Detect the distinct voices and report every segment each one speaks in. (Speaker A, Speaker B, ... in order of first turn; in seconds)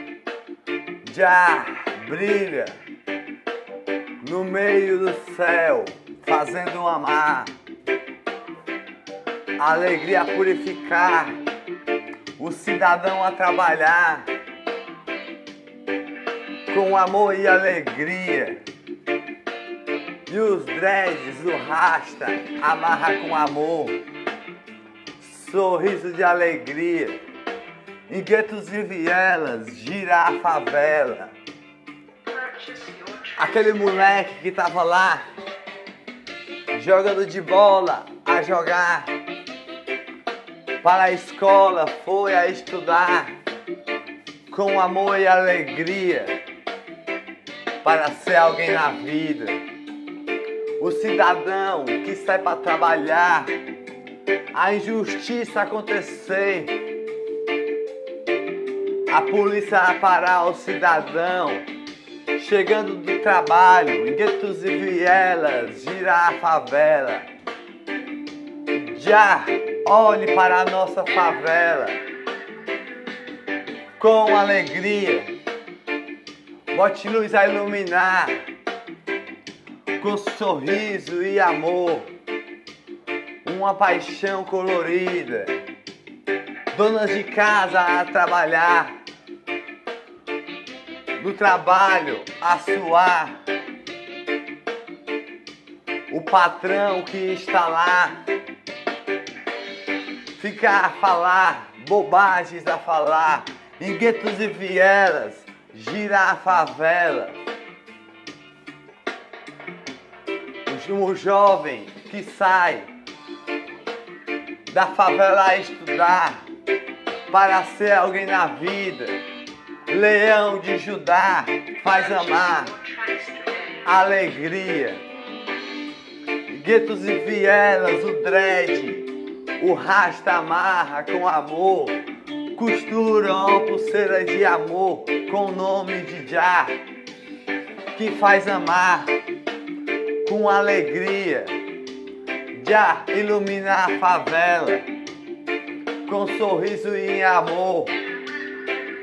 Speaker A: 1.0-2.8, 4.2-7.5, 9.6-11.4, 12.4-14.3, 16.7-18.6, 20.3-24.0, 25.2-27.2, 28.1-31.3, 33.3-35.2, 36.7-39.1, 40.8-43.4, 44.5-46.4, 47.8-49.6, 50.8-53.6, 54.5-56.8, 59.1-61.7, 62.3-67.3, 68.7-72.0, 74.0-75.3, 76.7-78.4, 80.0-82.1, 83.4-85.6, 86.7-89.0, 91.2-93.4, 96.1-98.2, 100.3-107.4, 110.7-112.9, 114.7-116.4, 117.3-119.2, 119.9-122.8, 123.8-125.0, 126.5-132.0, 132.5-136.8, 137.9-139.2, 140.2-141.6, 142.5-144.9, 146.1-147.9